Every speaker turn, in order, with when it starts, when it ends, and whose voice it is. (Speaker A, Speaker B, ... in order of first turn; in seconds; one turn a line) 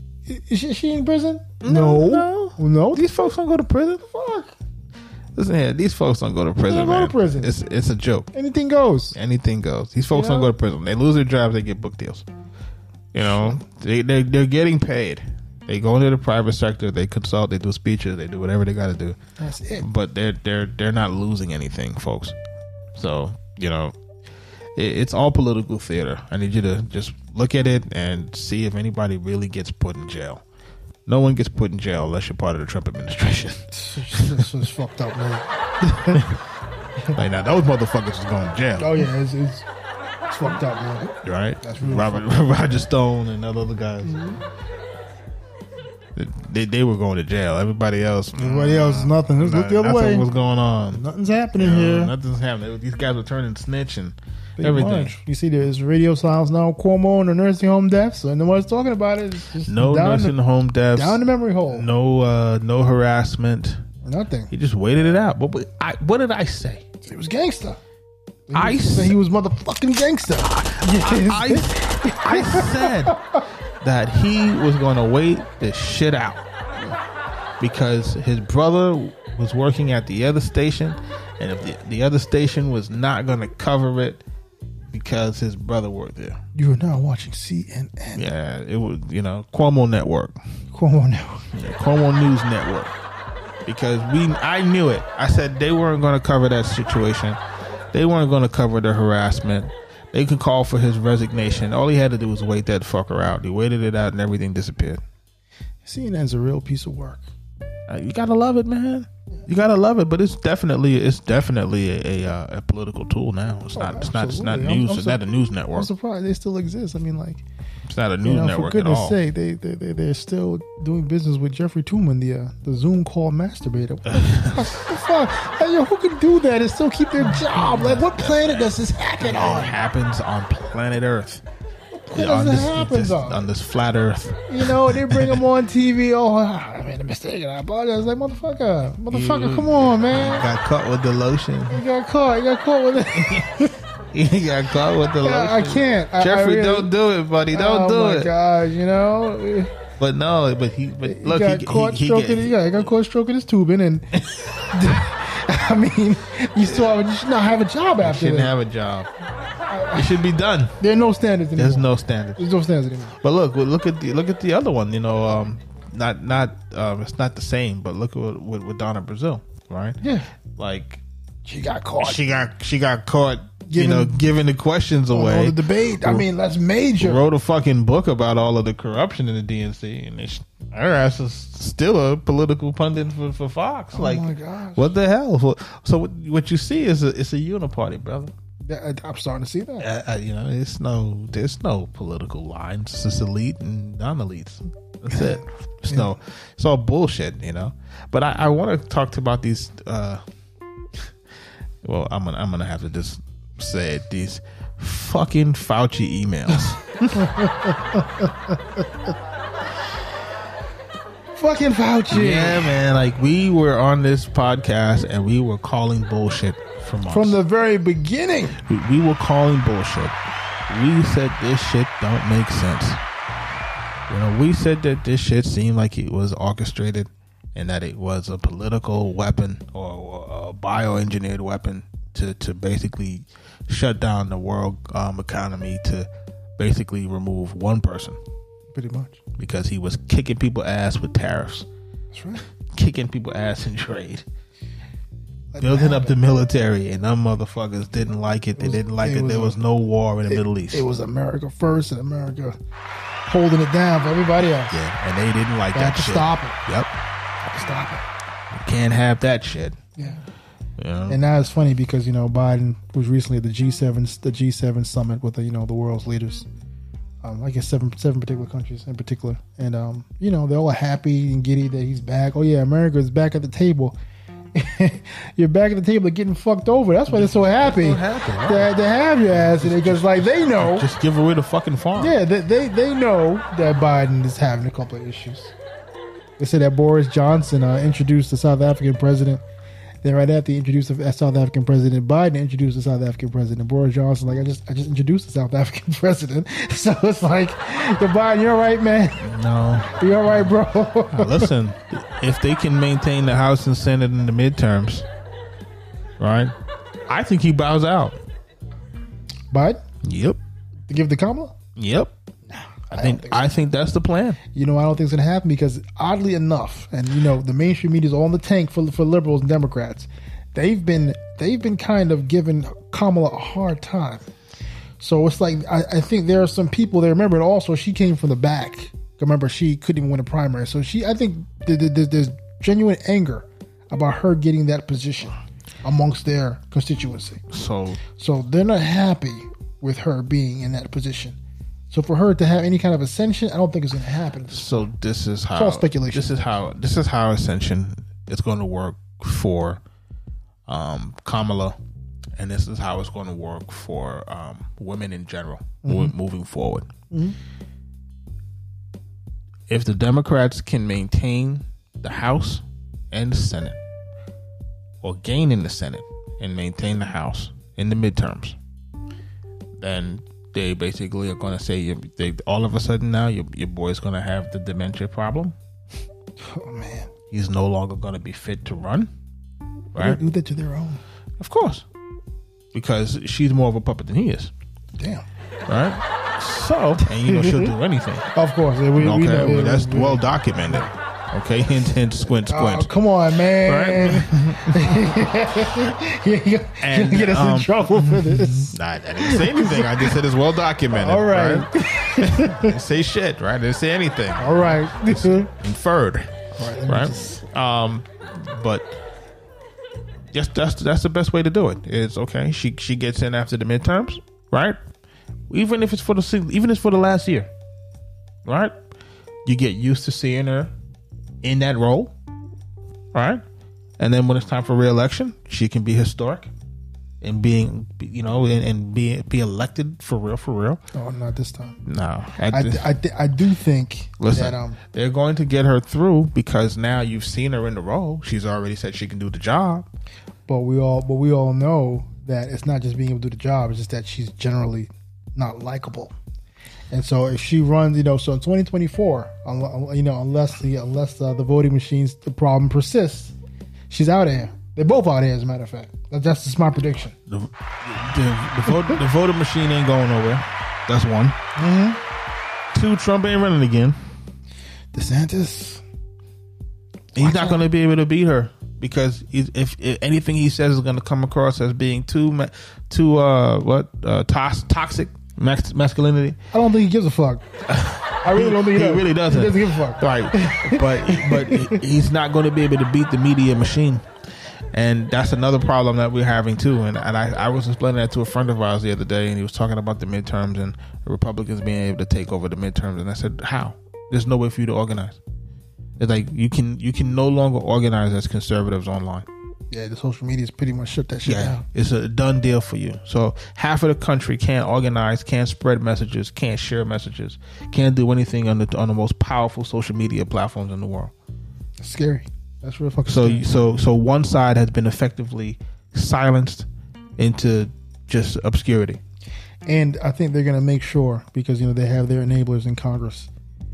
Speaker A: 0.3-3.0
Speaker B: 1.6-4.1
Speaker A: 4.1-4.5
Speaker B: 5.4-8.3
Speaker A: 6.7-7.5
Speaker A: 8.3-9.2
Speaker B: 9.1-12.2
Speaker A: 10.1-10.5
Speaker B: 13.1-19.2
Speaker A: 13.2-13.6
Speaker A: 19.4-19.9
Speaker B: 19.8-22.4
Speaker B: 22.9-23.9
Speaker B: 24.8-30.4
Speaker B: 31.1-34.5
Speaker A: 33.7-36.3
Speaker B: 37.1-39.0
Speaker A: 38.8-39.7
Speaker A: 40.3-42.2
Speaker B: 41.2-44.2
Speaker A: 44.0-44.4
Speaker B: 46.1-51.0
Speaker A: 48.4-50.3
Speaker A: 50.9-52.1
Speaker B: 51.5-55.2
Speaker A: 54.6-60.4
Speaker B: 59.6-63.8
Speaker A: 60.9-61.9
Speaker A: 64.0-64.5
Speaker B: 64.5-66.8
Speaker A: 67.0-67.8
Speaker A: 68.5-73.4
Speaker B: 68.5-69.2
Speaker B: 70.5-73.2
Speaker B: 73.8-76.5
Speaker B: 77.6-84.2
Speaker B: 84.9-86.4
Speaker A: 86.5-88.3
Speaker B: 88.2-90.4
Speaker A: 90.7-91.5
Speaker B: 91.5-92.9
Speaker B: 93.7-97.4
Speaker B: 97.9-105.0
Speaker A: 105.8-107.3
Speaker B: 107.9-115.9
Speaker A: 113.8-115.2
Speaker A: 115.7-117.4
Speaker B: 117.8-119.2
Speaker A: 118.2-129.8
Speaker B: 124.1-124.8
Speaker B: 127.3-131.4
Speaker A: 131.9-133.4
Speaker B: 132.1-135.4
Speaker A: 134.5-140.5
Speaker B: 139.1-141.8
Speaker A: 141.7-143.8
Speaker B: 143.2-143.5
Speaker B: 144.1-148.3
Speaker A: 145.2-146.9
Speaker A: 147.5-149.7
Speaker B: 150.0-152.9
Speaker A: 151.0-158.5
Speaker B: 156.6-157.0
Speaker B: 158.0-159.1
Speaker A: 159.7-160.2
Speaker B: 159.9-160.8
Speaker A: 160.8-163.2
Speaker B: 161.6-162.4
Speaker B: 163.2-170.0
Speaker A: 170.0-170.3
Speaker B: 170.6-171.0
Speaker A: 171.4-172.3
Speaker B: 172.0-176.3
Speaker A: 173.7-174.3
Speaker A: 175.1-177.2
Speaker B: 177.0-188.3
Speaker A: 183.9-184.9
Speaker A: 188.6-189.9
Speaker B: 189.8-200.2
Speaker A: 195.1-196.1
Speaker B: 201.8-207.3
Speaker A: 207.1-208.8
Speaker A: 211.3-212.8
Speaker B: 212.1-217.4
Speaker A: 217.1-218.6
Speaker B: 218.6-220.2
Speaker B: 220.7-223.0
Speaker B: 224.1-238.2
Speaker A: 238.7-239.2
Speaker B: 239.4-241.7
Speaker A: 242.1-242.4
Speaker B: 242.7-244.2
Speaker A: 245.5-246.2
Speaker B: 245.6-250.9
Speaker A: 248.6-249.6
Speaker A: 250.3-252.6
Speaker A: 253.3-254.8
Speaker B: 254.7-256.9
Speaker A: 255.7-256.6
Speaker A: 257.4-258.0
Speaker B: 258.5-259.8
Speaker B: 260.8-261.2
Speaker A: 261.1-266.5
Speaker A: 267.2-274.0
Speaker A: 274.6-280.9
Speaker B: 277.1-278.8
Speaker B: 279.3-282.2
Speaker A: 282.0-285.5
Speaker A: 286.4-289.4
Speaker A: 290.0-299.3
Speaker B: 299.2-300.0
Speaker A: 299.8-301.5
Speaker B: 301.1-305.1
Speaker B: 306.2-306.5
Speaker B: 307.1-308.2
Speaker A: 309.5-309.9
Speaker B: 310.0-310.4
Speaker A: 310.9-311.6
Speaker B: 311.8-312.1
Speaker A: 312.5-313.5
Speaker B: 312.9-314.4
Speaker A: 314.5-324.3
Speaker A: 325.0-337.4
Speaker B: 337.5-338.0
Speaker A: 338.1-341.4
Speaker A: 341.9-344.9
Speaker B: 344.5-349.8
Speaker A: 345.5-346.5
Speaker B: 350.7-351.8
Speaker B: 352.4-356.9
Speaker A: 355.8-356.1
Speaker A: 357.1-357.4
Speaker B: 359.7-363.8
Speaker B: 365.0-368.6
Speaker B: 369.8-375.6
Speaker A: 376.4-377.1
Speaker B: 377.3-379.1
Speaker B: 379.9-380.2
Speaker A: 380.0-381.0
Speaker B: 381.4-381.9
Speaker B: 382.7-384.5
Speaker A: 385.0-385.2
Speaker B: 385.7-388.3
Speaker A: 387.1-390.9
Speaker B: 389.0-392.9
Speaker A: 392.5-400.2
Speaker B: 393.5-395.0
Speaker B: 396.8-409.0
Speaker A: 400.9-402.8
Speaker A: 404.4-405.5
Speaker A: 406.6-407.4
Speaker B: 410.3-414.8
Speaker B: 415.5-417.5
Speaker B: 418.4-418.8
Speaker B: 419.4-420.7
Speaker B: 421.4-422.1
Speaker B: 423.1-423.4
Speaker B: 424.0-426.5
Speaker B: 427.2-430.8
Speaker A: 430.9-431.8
Speaker B: 431.8-432.9
Speaker A: 432.5-434.8
Speaker B: 434.2-439.9
Speaker A: 440.5-446.1
Speaker A: 446.9-453.3
Speaker A: 453.9-457.2
Speaker B: 457.3-461.4
Speaker A: 461.6-462.0
Speaker B: 462.7-464.0
Speaker A: 464.9-465.8
Speaker B: 467.1-476.4
Speaker A: 467.2-467.6
Speaker A: 476.5-477.4
Speaker B: 477.7-484.1
Speaker A: 478.2-481.8
Speaker B: 484.7-495.2
Speaker B: 496.0-499.3
Speaker A: 499.7-501.6
Speaker B: 501.2-511.1
Speaker A: 511.8-513.5
Speaker B: 513.1-516.7
Speaker B: 517.2-519.0
Speaker A: 519.7-523.3